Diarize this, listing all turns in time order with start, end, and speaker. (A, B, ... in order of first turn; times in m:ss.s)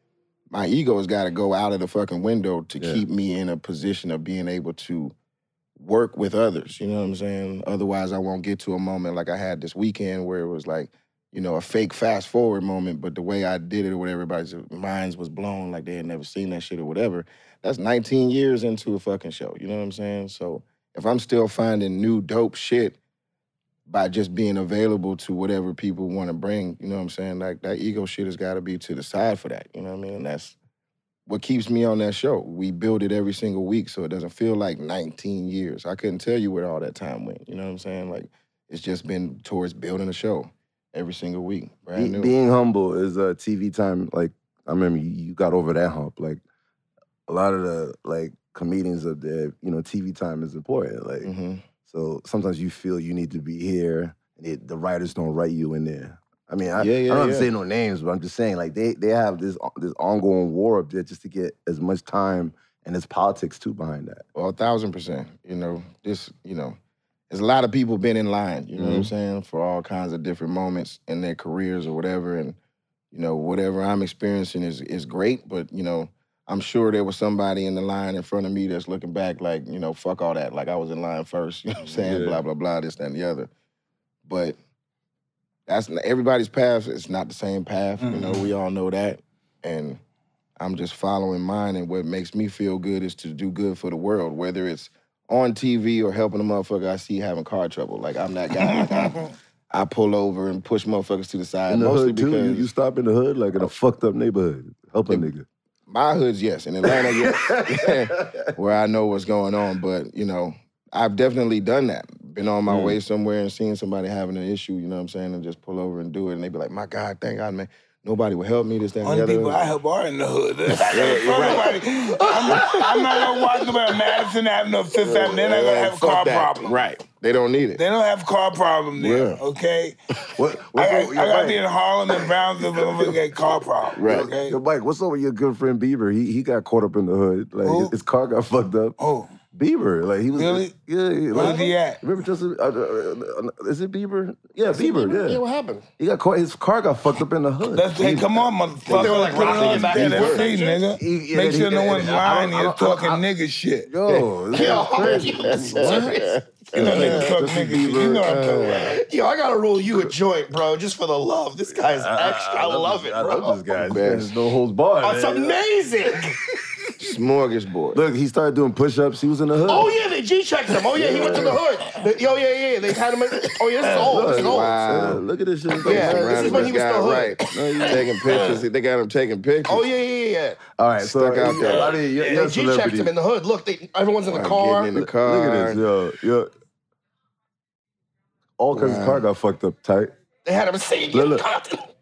0:00.5-0:05.2 A
0:05.8-0:23.0 A
0:23.9-0:30.6 A
0:31.3-0:42.3 A
0:42.0-0:46.4 B
0:47.3-0:51.3 B
0:51.2-0:51.7 A
0:51.8-1:04.2 B
0:56.8-0:57.5 A
1:04.4-1:06.8 A
1:07.3-1:12.6 A
1:08.8-1:09.1 B
1:13.1-1:23.5 A
1:21.9-1:22.4 B
1:24.2-1:24.6 A
1:25.7-1:30.0 A
1:28.0-1:28.5 C
1:30.6-1:39.2 A
1:38.6-1:39.3 C
1:39.7-1:42.7 A
1:41.7-1:45.5 B
1:45.9-1:59.7 A
1:46.9-1:48.5 B
1:52.7-1:53.0 B
1:59.0-2:06.7 C
2:00.8-2:01.8 A
2:02.3-2:03.3 D
2:05.0-2:07.8 A
2:07.8-2:10.0 C
2:09.0-2:09.4 A
2:10.4-2:11.6 B
2:10.7-2:14.6 C
2:14.0-2:14.3 A
2:14.1-2:19.0 B
2:17.6-2:18.0 C
2:19.0-2:19.3 C
2:19.5-2:25.4 B
2:20.3-2:20.7 C
2:21.3-2:22.0 C
2:21.4-2:21.6 D
2:24.7-2:25.9 D
2:26.0-2:28.4 B
2:27.7-2:33.9 C
2:28.9-2:30.4 A
2:28.9-2:30.8 D
2:29.2-2:33.2 B
2:33.9-2:38.3 B
2:34.1-2:37.4 A
2:34.5-2:36.4 D
2:36.7-2:38.8 C
2:38.2-2:39.0 A
2:38.6-2:43.6 D
2:41.8-2:45.6 B
2:43.8-2:44.4 A
2:45.0-2:46.4 D
2:47.0-2:48.0 A
2:47.9-2:49.9 B
2:49.7-2:54.8 D
2:51.0-2:51.6 B
2:53.9-2:54.1 C
2:53.9-2:56.8 B
2:54.3-2:55.2 A
2:55.8-2:58.4 D
2:55.8-2:59.9 A
2:57.5-2:58.0 B
2:59.7-3:00.6 D
3:00.8-3:03.1 B
3:01.0-3:02.0 A
3:01.6-3:04.9 D
3:04.3-3:05.8 A
3:05.0-3:06.5 B
3:08.6-3:10.2 B
3:08.7-3:09.3 A
3:10.4-3:11.9 D
3:11.1-3:11.4 B